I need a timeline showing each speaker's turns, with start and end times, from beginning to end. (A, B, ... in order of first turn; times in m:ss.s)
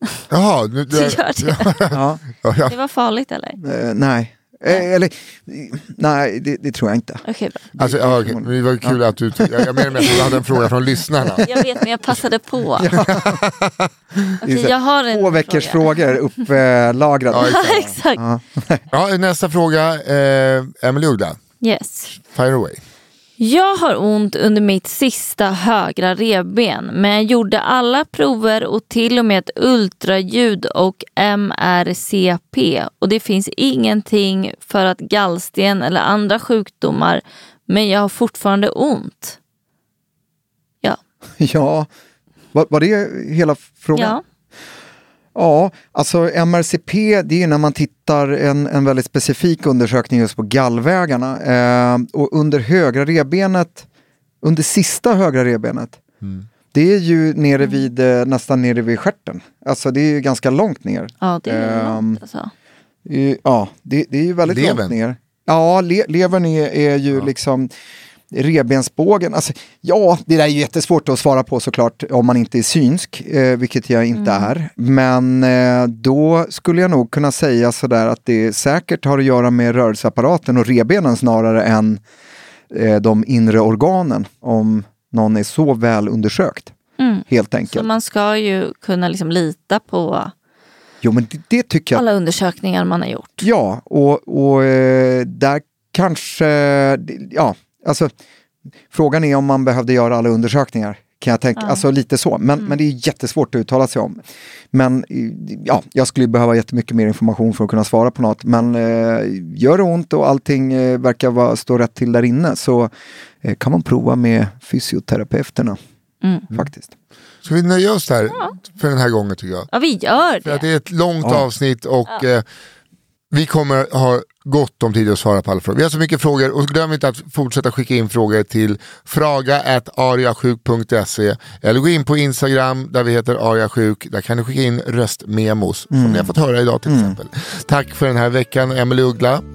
0:00.3-0:02.7 A
0:00.9-0:01.7 B
0:01.9-0:02.2 C
0:02.7-0:03.6 B
0:03.6-0:10.4 C
0:07.2-0:07.6 B
0:07.8-0:11.4 A
0:11.2-0:11.6 C
0:11.4-0:13.0 B
0:12.8-0:13.4 C
0:13.0-0:13.9 A
0:14.4-0:18.8 C
0:14.4-0:16.0 B
0:17.3-0:17.8 A
0:17.4-0:18.2 B
0:18.9-0:21.4 A
0:21.6-0:22.1 B
0:22.2-0:22.8 A
0:23.4-0:39.4 B
0:41.4-0:41.9 C
0:42.5-0:44.2 C
0:44.0-0:44.2 B
0:45.4-0:53.9 C
0:54.4-0:56.0 C
0:56.7-1:02.2 C
1:01.2-1:02.5 B
1:03.0-1:07.7 C
1:04.5-1:05.0 A
1:08.3-1:22.0 C
1:14.2-1:14.5 B
1:22.7-1:26.7 C
1:27.0-1:30.3 B
1:27.3-1:27.9 C
1:31.0-1:32.0 C
1:31.9-1:33.4 B
1:33.4-1:38.1 C
1:38.9-1:44.2 C
1:41.6-1:41.8 B
1:44.7-1:52.9 C
1:53.4-1:55.8 C
1:56.5-1:56.9 C
1:57.4-1:59.7 A
1:59.7-2:00.7 B
2:00.4-2:02.4 A
2:03.3-2:19.4 A
2:15.9-2:16.4 C
2:16.9-2:17.2 C